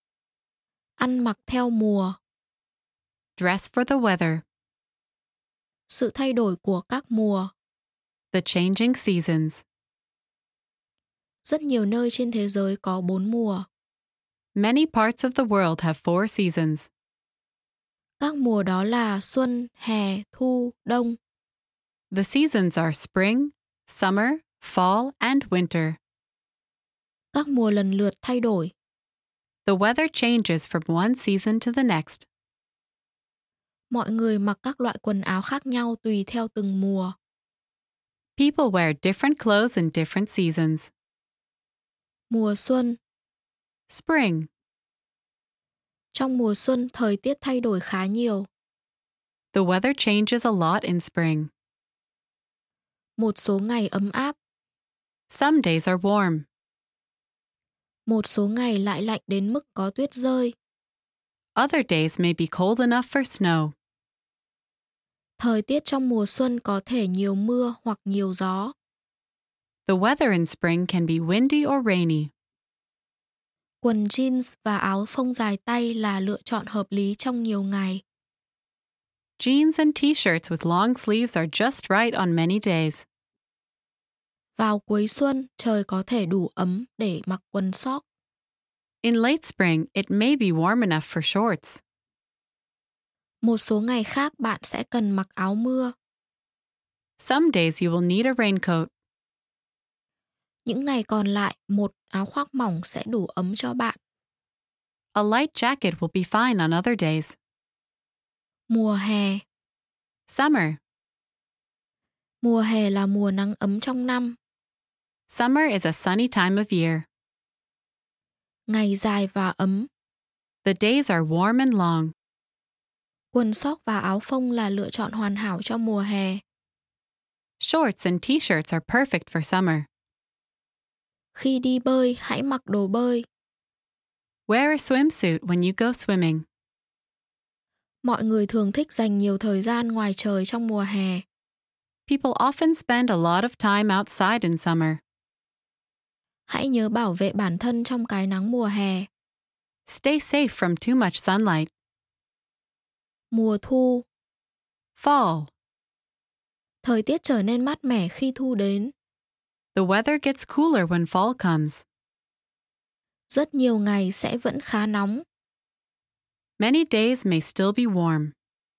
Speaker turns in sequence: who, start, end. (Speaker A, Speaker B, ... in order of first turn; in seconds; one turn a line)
Speaker A: 1.0-2.2
Speaker B: 3.4-4.4
Speaker A: 5.9-7.5
Speaker B: 8.3-9.6
Speaker A: 11.4-13.7
Speaker B: 14.6-16.9
Speaker A: 18.2-21.2
Speaker B: 22.1-26.0
Speaker A: 27.3-28.7
Speaker B: 29.6-32.3
Speaker A: 33.9-37.1
Speaker B: 38.4-40.9
Speaker A: 42.3-43.0
Speaker B: 43.9-44.5
Speaker A: 46.1-48.5
Speaker B: 49.5-51.5
Speaker A: 53.2-54.4
Speaker B: 55.3-56.5
Speaker A: 58.1-60.5
Speaker B: 61.5-63.7
Speaker A: 65.4-68.7
Speaker B: 69.9-72.3
Speaker A: 73.8-78.0
Speaker B: 79.4-83.1
Speaker A: 84.6-88.0
Speaker B: 89.0-91.8
Speaker A: 93.4-95.9
Speaker B: 97.2-98.9
Speaker A: 100.7-104.0
Speaker B: 105.1-107.4
Speaker A: 108.7-109.4
Speaker B: 110.3-110.8
Speaker A: 112.4-114.4
Speaker B: 115.3-117.1
Speaker A: 118.7-119.9
Speaker B: 120.6-122.1
Speaker A: 123.3-126.4
Speaker B: 127.6-129.9
Speaker A: 131.3-133.3
Speaker B: 134.5-136.4
Speaker A: 138.0-141.2
Speaker B: 142.1-145.0
Speaker A: 146.5-149.1
Speaker B: 149.9-151.7
Speaker A: 153.3-154.1
Speaker B: 155.0-155.5
Speaker A: 156.8-158.9
Speaker B: 159.8-161.8
Speaker A: 163.3-165.2
Speaker B: 166.6-168.3